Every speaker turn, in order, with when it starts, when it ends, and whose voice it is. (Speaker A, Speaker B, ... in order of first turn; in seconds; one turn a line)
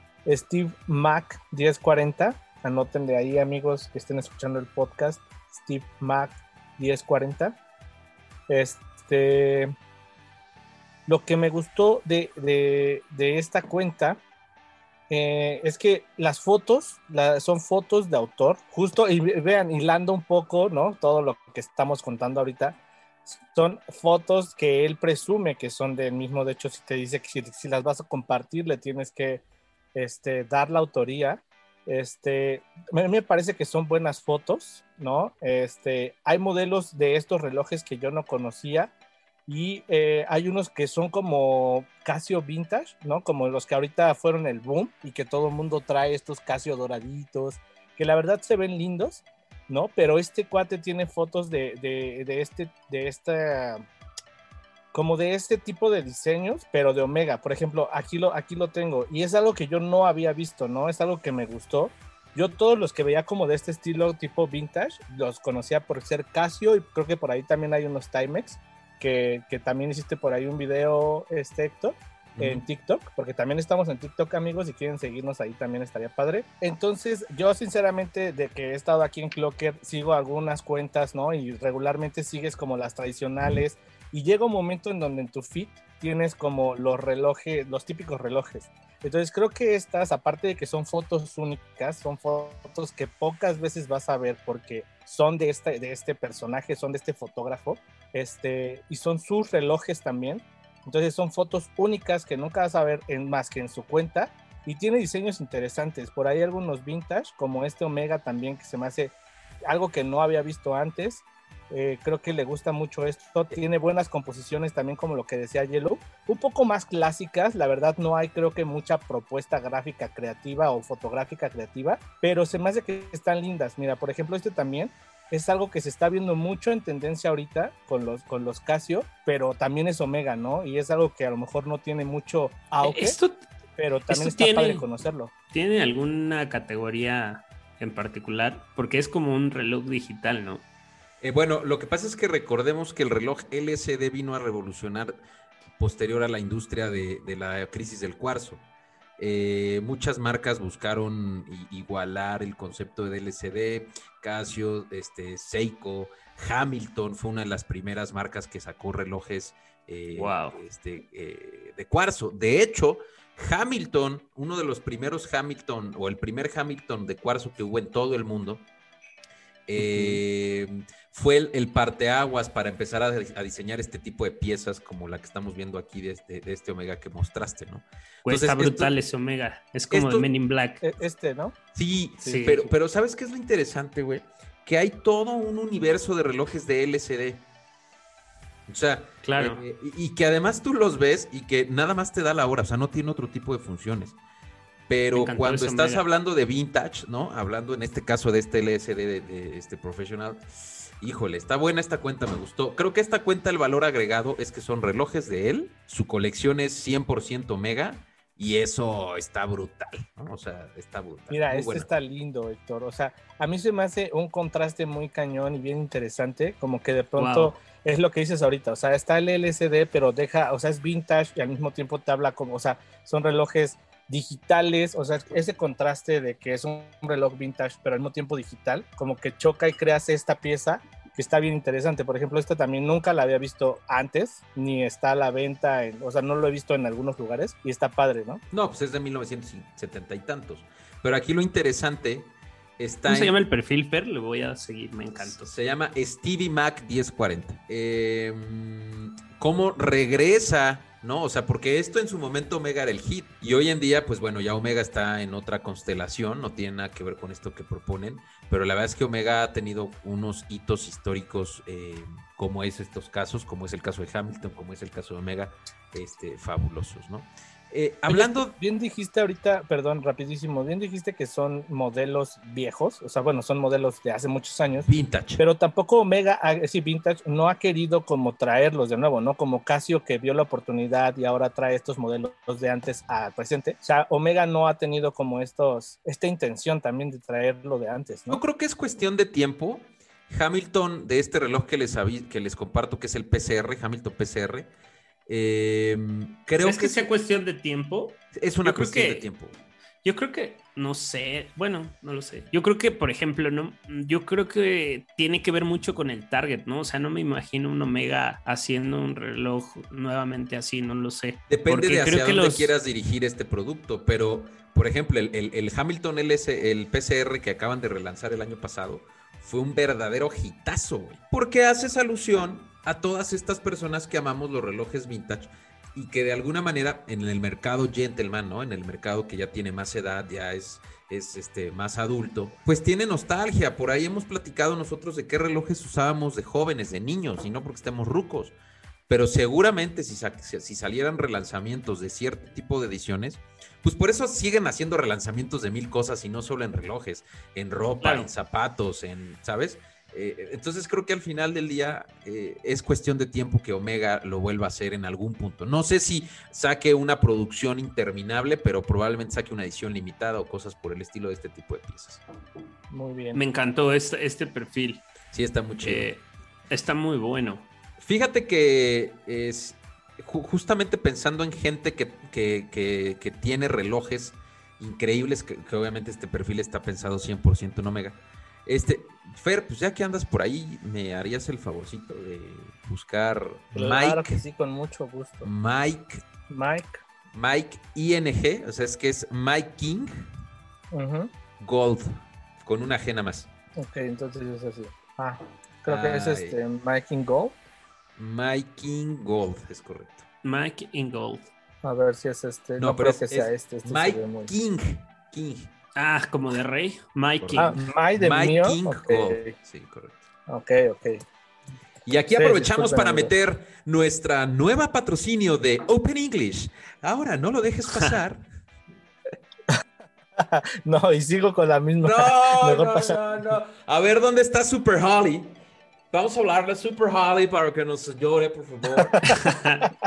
Speaker A: 0.2-7.6
Speaker A: 8.5-9.7
Speaker A: 11.1-14.2
Speaker A: 15.1-29.4
Speaker A: 29.9-38.9
Speaker A: 39.5-53.8
Speaker A: 54.9-109.1
Speaker B: 72.3-72.6
Speaker A: 109.7-133.2
Speaker C: 132.8-133.4
Speaker A: 133.8-135.3
Speaker C: 134.1-134.8
Speaker C: 135.5-140.6
Speaker B: 141.2-145.1
Speaker B: 145.8-148.6
Speaker B: 149.2-168.6
Speaker C: 160.1-160.6
Speaker B: 169.7-178.9
Speaker C: 169.8-170.2
Speaker C: 178.2-180.8
Speaker B: 179.9-180.3
Speaker A: 180.8-181.6
Speaker B: 181.7-187.4
Speaker A: 182.2-182.7
Speaker C: 182.2-182.7
Speaker B: 188.7-194.2
Speaker C: 189.2-189.6
Speaker B: 194.9-211.9
Speaker C: 195.1-196.0
Speaker A: 211.3-238.4
Speaker C: 217.2-217.5
Speaker B: 238.5-243.3
Speaker C: 243.1-245.5
Speaker B: 245.2-268.5
Speaker A: 268.1-274.9
Speaker B: 274.8-275.4
Speaker A: 275.4-288.4
Speaker B: 288.3-294.7
Speaker B: 295.3-297.1
Speaker C: 296.6-299.3
Speaker B: 298.3-299.6
Speaker C: 300.0-312.7
Speaker B: 311.5-338.5
Speaker B: 339.1-362.2
Speaker C: 348.0-348.3
Speaker A: 362.9-363.4
Speaker C: 363.3-365.0
Speaker B: 365.3-366.1
Speaker C: 365.8-367.6
Speaker B: 368.0-384.4
Speaker A: 383.7-385.5
Speaker B: 385.4-386.2
Speaker A: 386.5-387.0
Speaker B: 387.3-390.2
Speaker A: 390.9-391.3
Speaker B: 391.6-393.5
Speaker A: 393.8-397.6
Speaker B: 395.9-396.6
Speaker B: 398.2-400.2
Speaker C: 400.4-401.5
Speaker A: 401.8-404.5
Speaker B: 402.8-405.7
Speaker C: 405.9-407.8
Speaker B: 407.4-410.2
Speaker A: 407.6-409.5
Speaker A: 410.5-411.2
Speaker B: 412.1-418.4
Speaker A: 412.3-413.3
Speaker A: 420.4-423.2
Speaker B: 422.0-425.5
Speaker B: 426.1-429.2
Speaker A: 429.0-429.4
Speaker C: 429.3-429.9